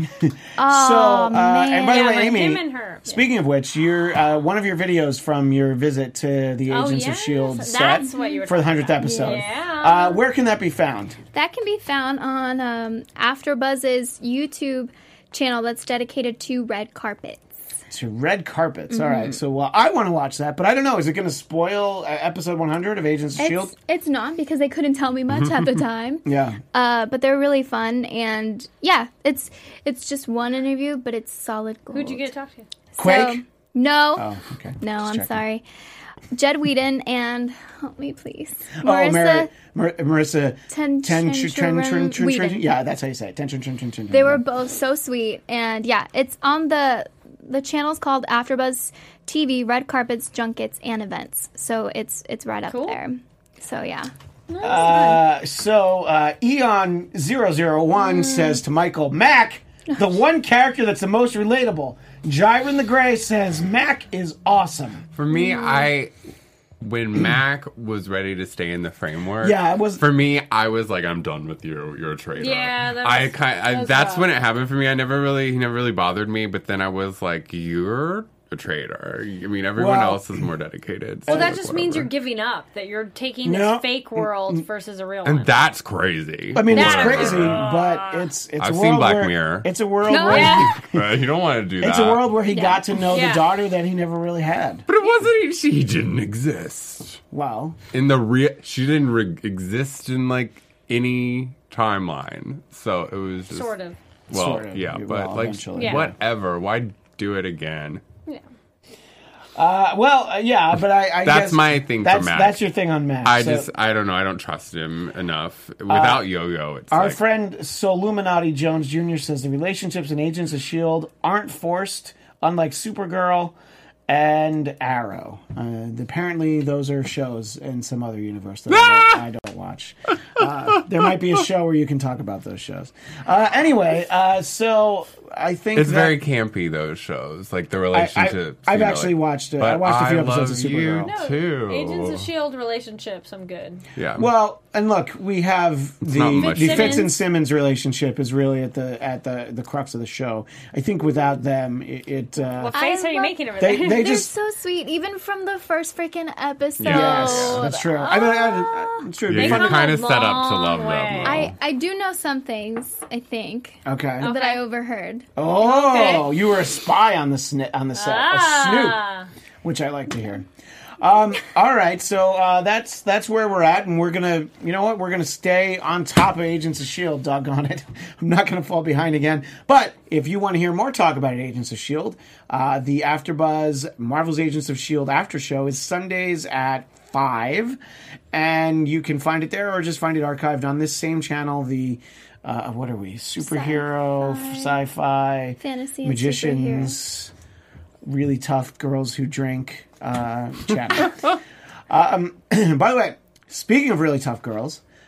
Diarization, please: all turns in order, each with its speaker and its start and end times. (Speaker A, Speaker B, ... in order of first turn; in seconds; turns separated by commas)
Speaker A: 0.2-11.2, Speaker B: 0.6-2.1, Speaker C: 1.8-3.2, Speaker C: 6.7-10.2, Speaker B: 8.0-8.4, Speaker B: 9.0-9.4, Speaker B: 11.3-17.5, Speaker A: 17.9-23.7, Speaker B: 18.9-19.3, Speaker B: 23.4-32.3, Speaker A: 26.2-26.6, Speaker C: 31.9-32.7, Speaker B: 33.0-34.3, Speaker A: 33.0-33.4, Speaker A: 34.1-35.4, Speaker B: 34.8-35.6, Speaker B: 36.3-39.5, Speaker A: 38.8-44.4, Speaker B: 40.7-42.6, Speaker B: 44.1-54.1, Speaker C: 52.7-53.0, Speaker C: 54.5-55.2, Speaker A: 54.6-65.0, Speaker B: 54.6-55.1, Speaker D: 65.1-66.1, Speaker B: 65.3-65.9, Speaker D: 66.8-82.1, Speaker A: 69.4-70.0, Speaker C: 72.4-74.3, Speaker A: 79.8-80.4, Speaker A: 81.3-81.6, Speaker C: 81.3-85.5, Speaker A: 83.4-84.6, Speaker D: 85.2-87.7, Speaker A: 86.5-91.2, Speaker C: 86.7-88.3, Speaker D: 88.6-89.7, Speaker B: 90.1-90.7, Speaker C: 90.3-90.7, Speaker D: 90.3-92.3, Speaker A: 91.8-94.8, Speaker B: 92.5-92.8, Speaker C: 93.1-93.5, Speaker D: 94.9-97.2, Speaker A: 97.3-97.8, Speaker D: 97.9-103.7, Speaker C: 103.5-104.0, Speaker A: 104.3-106.2, Speaker D: 104.3-108.0, Speaker C: 105.7-106.0, Speaker A: 109.5-113.7, Speaker D: 111.2-112.6, Speaker D: 113.2-117.2, Speaker A: 115.9-116.2, Speaker A: 116.9-123.5, Speaker A: 124.1-136.2, Speaker D: 128.7-129.2, Speaker D: 135.8-142.3, Speaker A: 137.9-141.1, Speaker C: 141.0-143.8, Speaker D: 143.9-144.3, Speaker A: 144.2-152.8, Speaker D: 146.0-147.1, Speaker C: 146.6-147.1, Speaker C: 152.6-154.2, Speaker B: 152.7-159.0, Speaker A: 153.6-154.3, Speaker D: 156.8-157.7, Speaker A: 156.8-159.9, Speaker D: 159.3-161.5, Speaker C: 159.3-161.5, Speaker B: 161.2-165.3, Speaker A: 163.8-164.3, Speaker C: 164.2-164.6, Speaker A: 165.3-169.0, Speaker C: 165.6-166.2, Speaker B: 165.9-166.2, Speaker C: 167.9-169.3, Speaker A: 169.6-170.4, Speaker A: 171.0-187.8, Speaker A: 188.3-197.3, Speaker B: 193.4-194.8, Speaker B: 195.6-196.9, Speaker A: 198.0-201.3, Speaker A: 201.9-204.8